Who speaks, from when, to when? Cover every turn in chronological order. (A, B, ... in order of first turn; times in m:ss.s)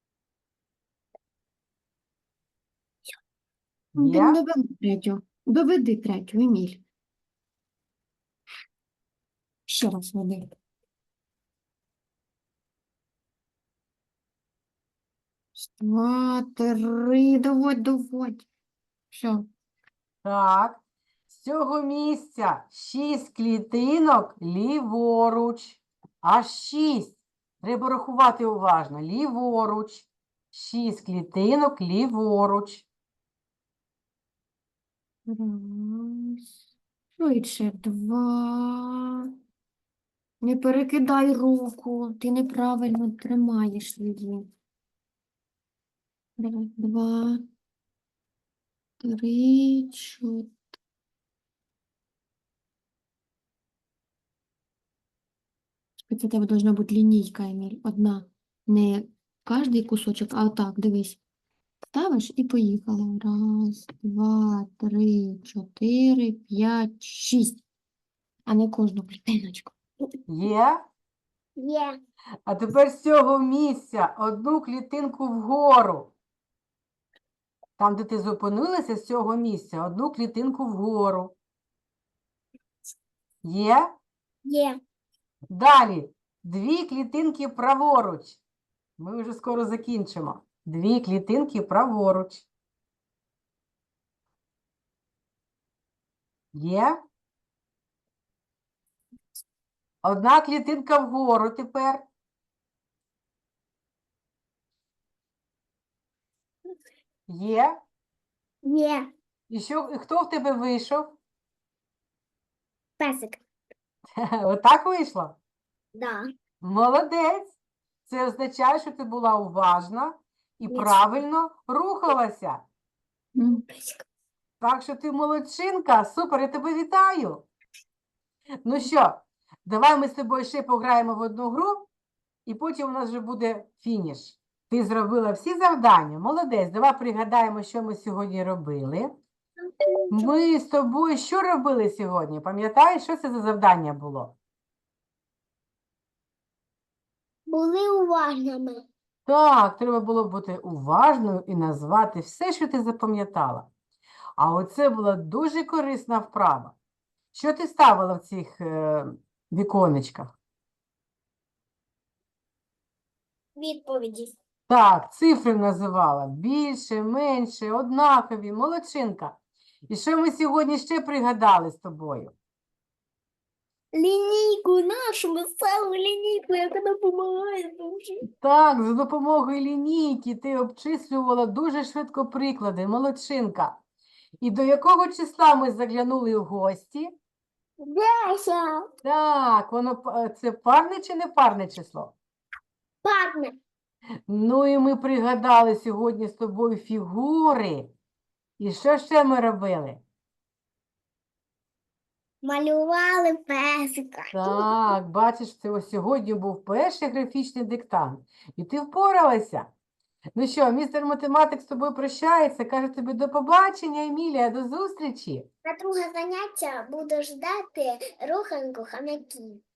0:03.9-0:04.4 A
0:04.0-0:06.8 B
0:09.7-0:10.5 B
0:15.6-0:18.5 B
0:19.1-0:19.5 B
0:20.2-0:32.8 A
0:35.2-0:36.5 B
0:37.2-0:39.3 B
0:40.4-0:44.5 B
0:46.4-0:47.4 B
0:49.0-0:50.5 B
0:56.1-1:01.2 B
1:01.8-1:07.6 B
1:08.4-1:09.8 B
1:10.3-1:10.8 A
1:11.6-1:12.0 C
1:12.5-1:16.1 A
1:17.8-1:21.3 A
1:23.4-1:24.0 A
1:24.4-1:24.8 C
1:25.5-1:28.4 A
1:29.0-1:32.5 A
1:36.5-1:37.0 A
1:40.0-1:42.0 A
1:47.3-1:47.8 A
1:48.6-1:49.1 C
1:49.5-1:51.2 A
1:53.0-1:53.4 C
1:54.2-1:55.4 A
1:55.9-1:56.3 C
1:56.6-2:02.6 A
2:00.7-2:01.0 C
2:03.4-2:03.6 B
2:03.7-2:04.0 C
2:04.6-2:07.5 A
2:08.6-2:11.9 A
2:12.4-2:19.1 A
2:19.6-2:20.4 C
2:20.1-2:24.4 A
2:27.5-2:28.8 C
2:29.3-2:33.7 A
2:34.4-2:36.7 A
2:37.3-2:40.3 A
2:43.6-2:44.3 C
2:44.7-2:49.4 A
2:49.9-2:52.3 A
2:53.9-2:58.2 C
2:58.4-3:03.8 A
3:04.4-3:07.1 A
3:07.8-3:08.9 C
3:09.0-3:12.1 A
3:13.0-3:13.6 C
3:14.3-3:17.9 A
3:18.6-3:20.0 A
3:22.4-3:24.7 C
3:24.3-3:29.7 A
3:30.4-3:35.5 A
3:35.6-3:39.6 C